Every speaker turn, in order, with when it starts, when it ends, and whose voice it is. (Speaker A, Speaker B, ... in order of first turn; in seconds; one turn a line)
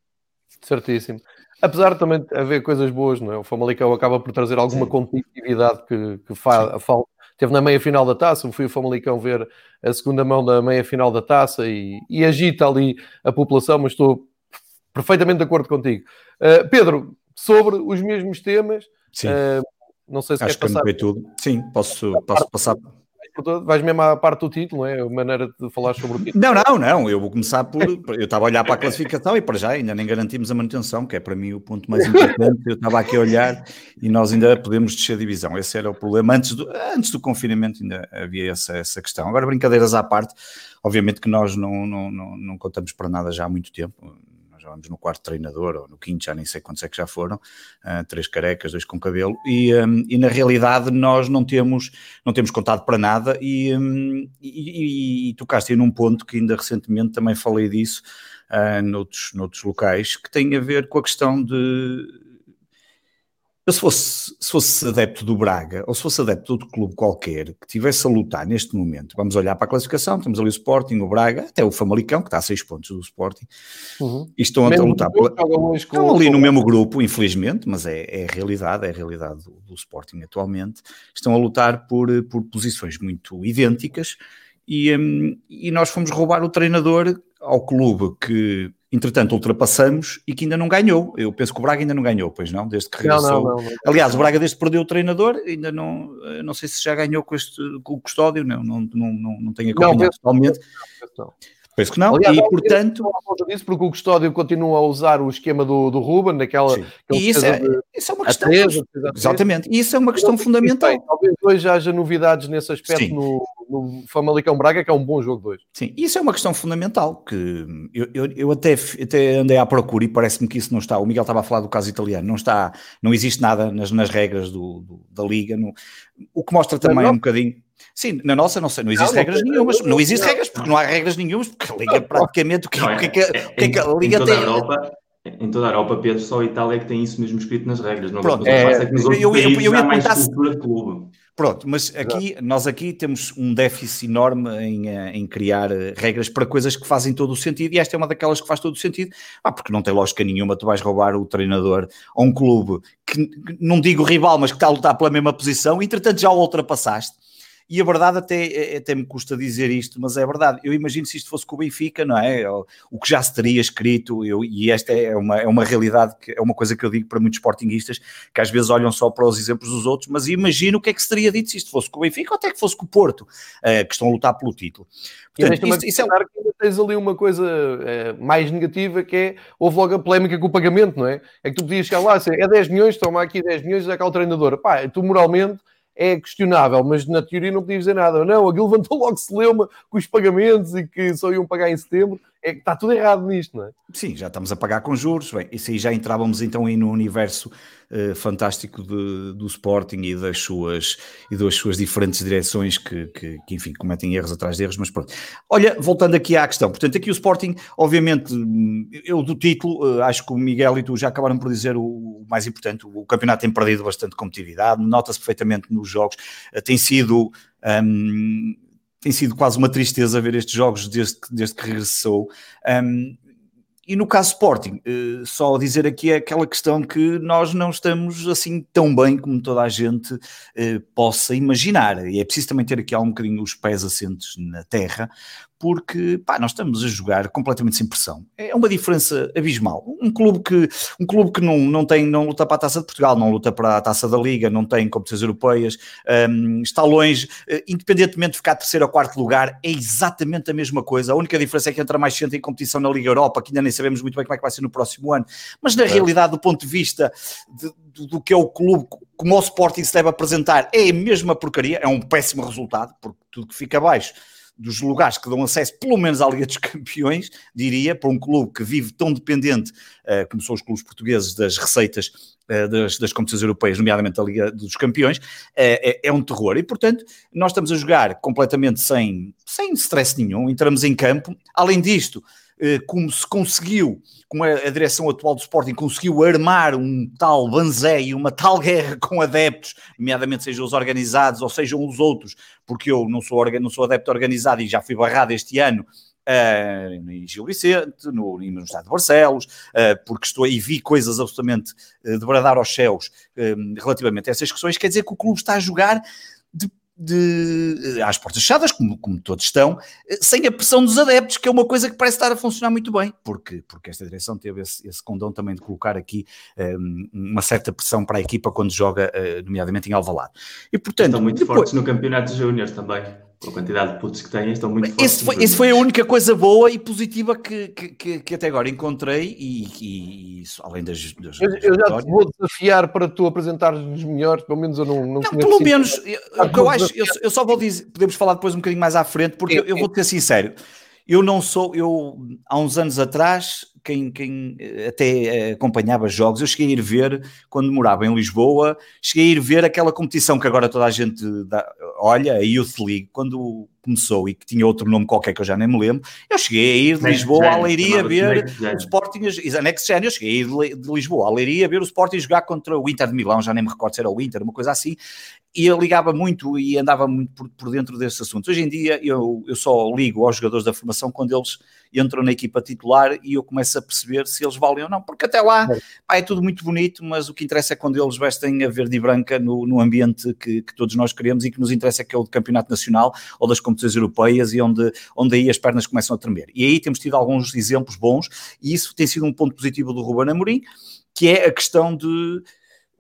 Speaker A: 0.6-14.3
Speaker A: 14.9-21.0
Speaker B: 20.4-22.9
Speaker A: 22.2-22.7
Speaker A: 23.3-26.4
Speaker B: 26.3-62.1
Speaker A: 32.1-32.4
Speaker B: 63.7-73.5
Speaker A: 74.0-76.5
Speaker B: 74.4-75.4
Speaker B: 76.0-100.6
Speaker A: 93.0-94.3
Speaker A: 99.7-101.3
Speaker B: 101.8-103.1
Speaker A: 102.1-109.4
Speaker B: 106.7-111.0
Speaker A: 110.2-115.6
Speaker B: 112.9-113.2
Speaker B: 115.8-125.7
Speaker B: 126.3-134.6
Speaker A: 126.8-127.2
Speaker A: 129.0-130.4
Speaker A: 131.9-132.3
Speaker C: 132.8-141.1
Speaker B: 138.2-140.3
Speaker A: 138.5-139.1
Speaker B: 141.4-157.2
Speaker B: 157.7-176.1
Speaker A: 175.4-193.7
Speaker B: 193.9-223.2
Speaker B: 223.9-306.0
Speaker B: 306.5-321.7
Speaker C: 321.0-325.8
Speaker B: 324.8-332.1
Speaker A: 331.4-337.1
Speaker B: 335.2-340.6
Speaker A: 339.5-339.9
Speaker B: 341.1-365.0
Speaker C: 357.0-358.9
Speaker B: 365.6-390.6
Speaker B: 391.1-392.4